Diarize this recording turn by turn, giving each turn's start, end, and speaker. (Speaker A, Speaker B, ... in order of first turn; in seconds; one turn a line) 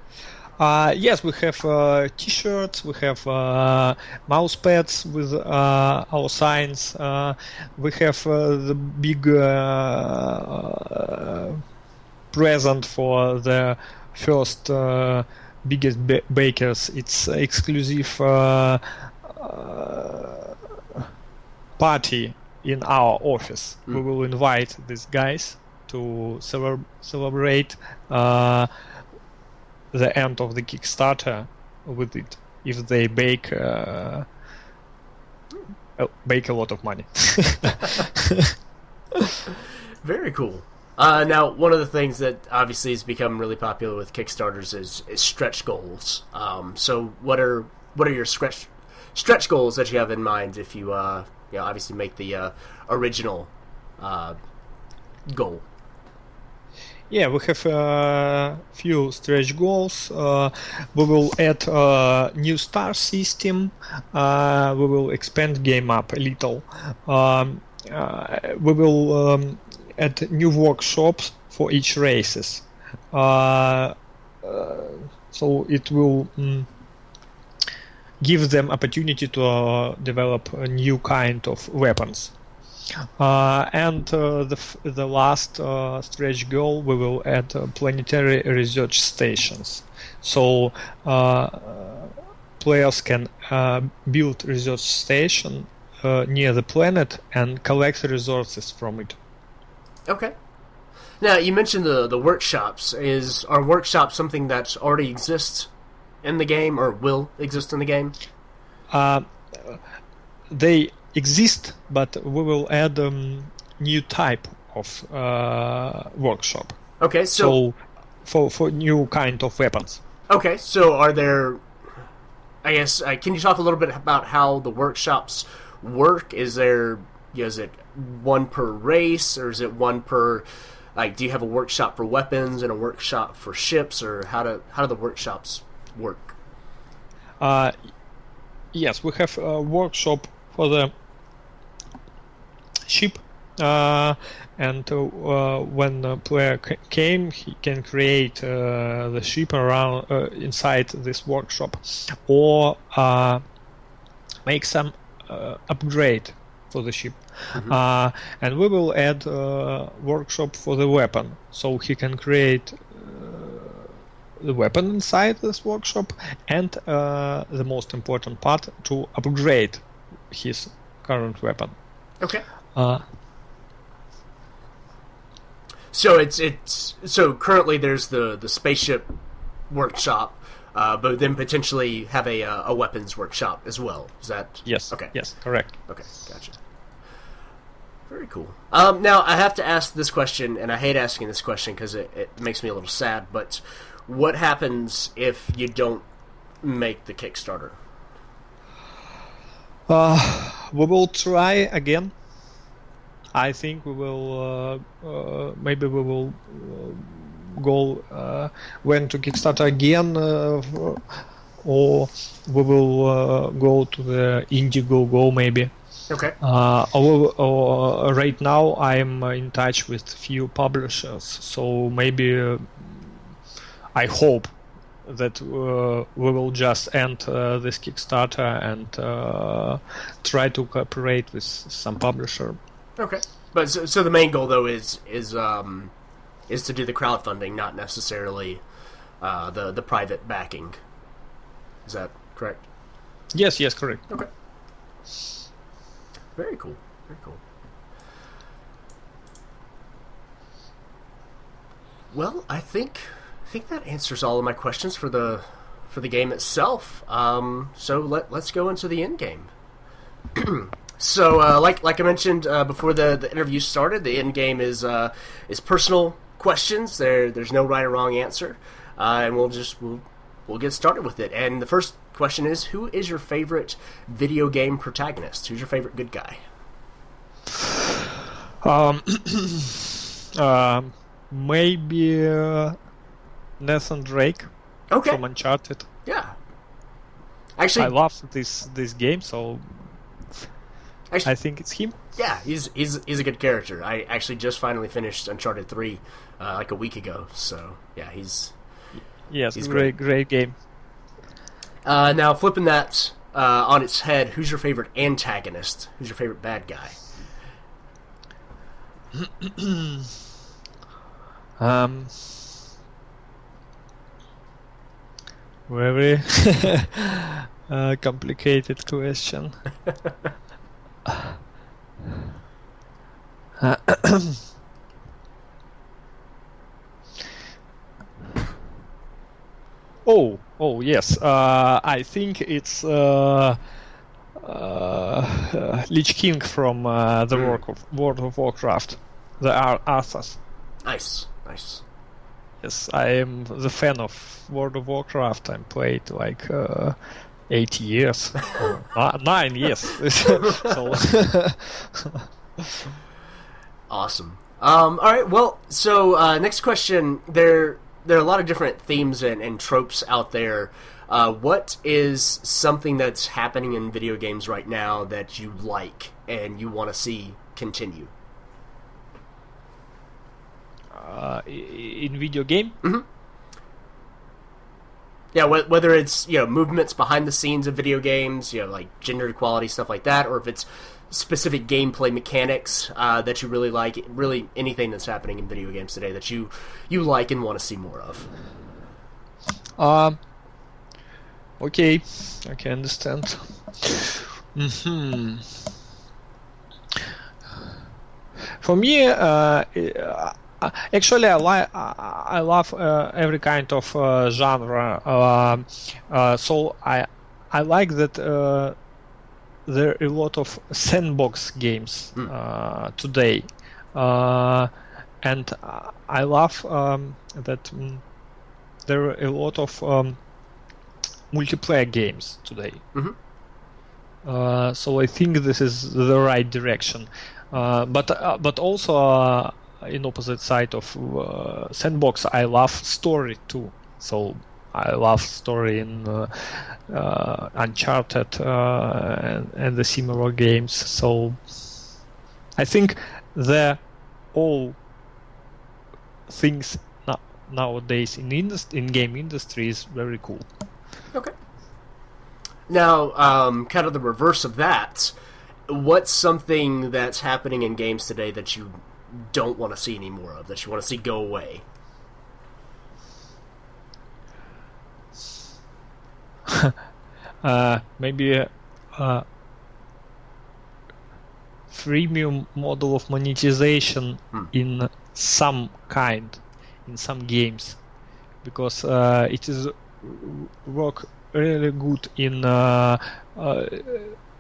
Speaker A: 0.6-11.6
Speaker A: 12.3-21.1
Speaker A: 21.8-28.7
Speaker A: 29.9-34.3
Speaker A: 36.0-38.5
Speaker A: 39.1-39.4
Speaker B: 39.5-54.4
Speaker B: 55.3-55.7
Speaker A: 57.1-76.7
Speaker A: 78.2-82.3
Speaker A: 82.9-99.2
Speaker B: 100.1-100.3
Speaker B: 101.2-105.7
Speaker B: 106.2-108.2
Speaker A: 108.9-109.8
Speaker A: 110.5-116.8
Speaker B: 117.0-117.6
Speaker A: 117.3-120.0
Speaker B: 120.3-121.6
Speaker B: 122.6-136.4
Speaker A: 137.4-137.7
Speaker A: 138.7-140.9
Speaker A: 142.9-153.4
Speaker A: 154.5-171.8
Speaker A: 172.8-173.0
Speaker B: 175.9-179.1
Speaker B: 179.7-185.2
Speaker A: 184.7-185.8
Speaker B: 185.8-186.6
Speaker B: 188.1-196.1
Speaker B: 196.6-197.8
Speaker A: 199.9-202.1
Speaker A: 203.3-215.7
Speaker B: 216.1-216.4
Speaker A: 216.4-223.2
Speaker A: 223.9-224.5
Speaker A: 225.1-232.6
Speaker B: 233.0-235.9
Speaker B: 236.5-238.6
Speaker B: 239.2-240.8
Speaker B: 241.9-242.7
Speaker A: 243.3-244.1
Speaker B: 246.4-247.4
Speaker B: 252.1-259.5
Speaker B: 260.3-276.4
Speaker A: 278.6-282.8
Speaker A: 283.6-284.5
Speaker B: 284.9-285.2
Speaker A: 285.0-285.9
Speaker B: 286.1-286.4
Speaker B: 287.6-287.9
Speaker A: 287.8-289.9
Speaker A: 291.3-292.0
Speaker B: 292.1-298.6
Speaker A: 299.3-300.6
Speaker B: 299.6-299.9
Speaker B: 301.9-307.0
Speaker A: 309.1-310.1
Speaker A: 311.6-312.5
Speaker A: 315.7-319.6
Speaker A: 321.1-321.3
Speaker A: 323.6-324.4
Speaker A: 330.1-333.6
Speaker A: 334.4-340.4
Speaker B: 337.3-337.6
Speaker B: 340.9-341.8
Speaker A: 342.6-347.0
Speaker A: 347.5-352.9
Speaker B: 353.9-368.1
Speaker A: 370.9-372.8
Speaker B: 375.3-388.3
Speaker A: 389.8-390.2
Speaker A: 391.6-395.5
Speaker A: 398.6-408.8
Speaker A: 409.7-414.7
Speaker A: 415.2-418.0
Speaker A: 418.9-420.2
Speaker A: 421.3-422.8
Speaker A: 424.2-441.6
Speaker A: 442.6-443.8
Speaker A: 444.3-444.8
Speaker A: 446.3-450.5
Speaker B: 452.7-455.1
Speaker B: 455.7-461.6
Speaker A: 466.5-466.8
Speaker A: 467.4-469.2
Speaker A: 471.7-477.8
Speaker A: 478.4-484.2